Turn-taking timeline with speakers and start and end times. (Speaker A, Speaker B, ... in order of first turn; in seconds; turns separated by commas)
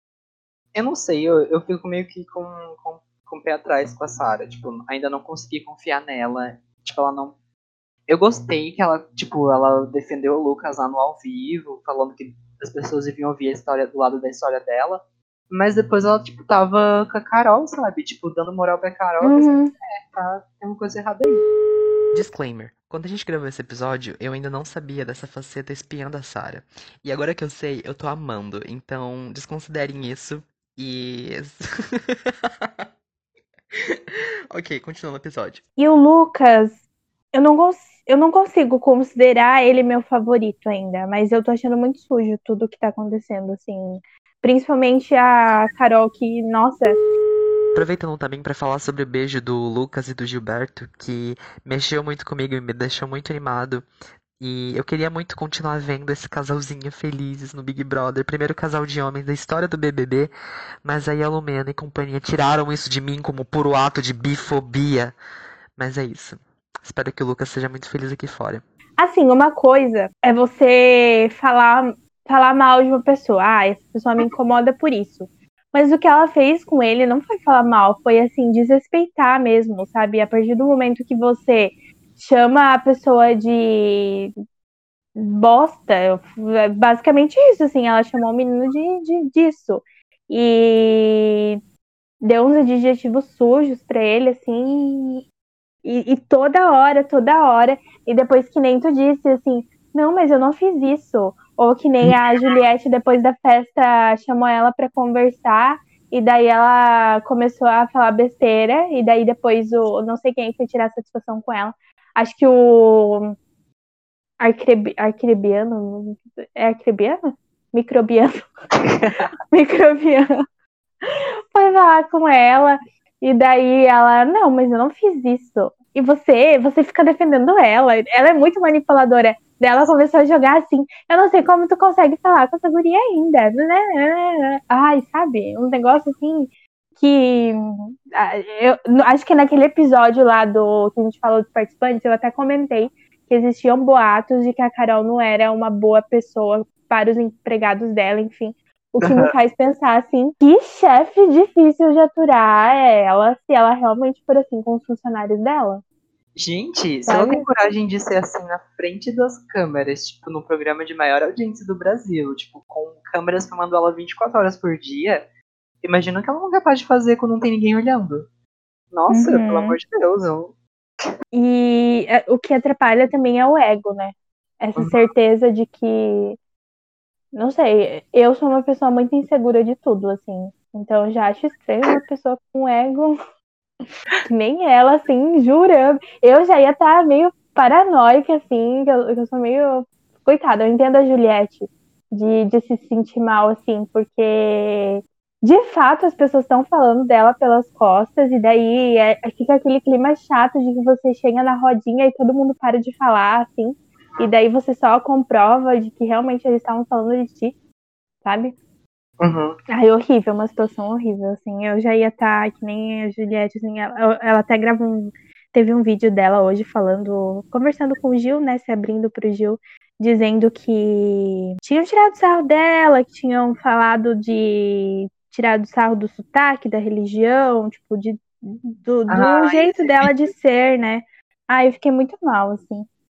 Speaker A: 0.8-7.3, Speaker A: 8.1-21.4, Speaker B: 19.2-19.7, Speaker C: 22.1-32.7, Speaker C: 34.5-35.6, Speaker B: 35.8-36.8, Speaker B: 37.3-47.0, Speaker C: 47.7-53.9, Speaker C: 54.4-60.3, Speaker C: 60.8-65.2, Speaker C: 65.8-68.6, Speaker B: 69.0-84.3, Speaker B: 85.2-91.6, Speaker B: 92.2-95.2, Speaker B: 95.8-113.3, Speaker B: 114.4-118.5, Speaker A: 119.0-119.2, Speaker B: 119.5-120.3, Speaker B: 121.5-155.8, Speaker A: 149.0-149.3, Speaker A: 156.3-165.2, Speaker B: 157.1-157.5, Speaker A: 165.8-168.3, Speaker A: 168.9-170.6, Speaker B: 169.1-169.8, Speaker B: 171.3-176.4, Speaker A: 174.8-175.0, Speaker B: 177.3-183.2, Speaker B: 184.3-207.6, Speaker B: 208.2-208.6, Speaker A: 209.2-209.6, Speaker B: 209.7-232.9, Speaker A: 229.1-230.3